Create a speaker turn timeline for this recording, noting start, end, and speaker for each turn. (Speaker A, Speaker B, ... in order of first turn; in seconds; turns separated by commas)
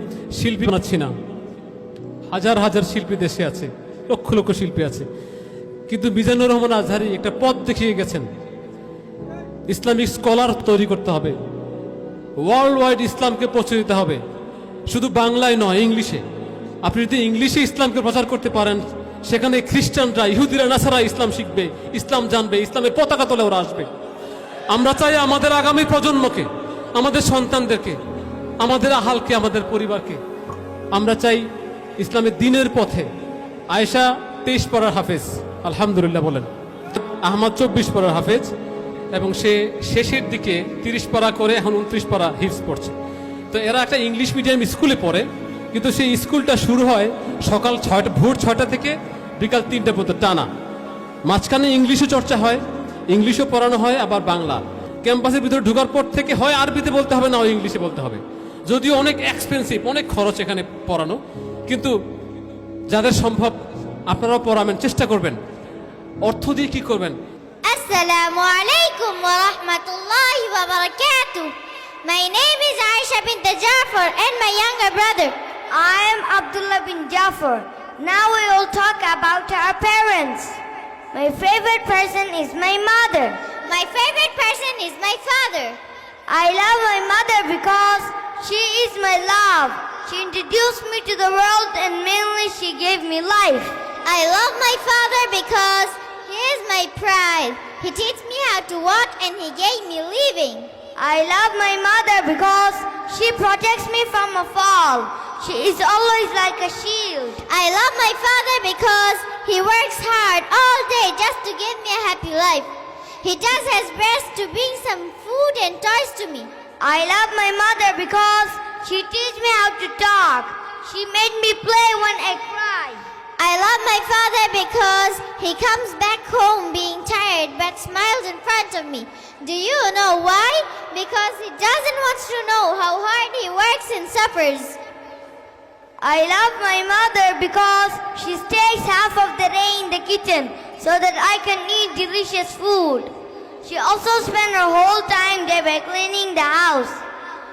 Speaker A: 0.3-1.1, Speaker A: 2.3-5.0, Speaker A: 5.9-8.3, Speaker A: 9.7-11.3, Speaker A: 12.4-14.2, Speaker A: 14.9-16.2, Speaker A: 16.8-23.9, Speaker A: 24.7-28.0, Speaker A: 28.6-30.2, Speaker A: 30.9-31.4, Speaker A: 32.0-33.1, Speaker A: 33.7-38.5, Speaker A: 39.1-43.0, Speaker A: 43.5-50.5, Speaker A: 51.2-61.9, Speaker A: 62.9-63.6, Speaker A: 64.1-65.3, Speaker A: 66.2-67.2, Speaker B: 67.6-75.4, Speaker C: 75.7-80.6, Speaker C: 81.1-83.4, Speaker B: 83.6-85.8, Speaker C: 86.3-93.7, Speaker B: 94.0-100.7, Speaker C: 101.0-107.4, Speaker B: 107.5-112.7, Speaker B: 113.2-116.5, Speaker C: 116.8-123.0, Speaker B: 123.4-134.8, Speaker C: 136.0-147.0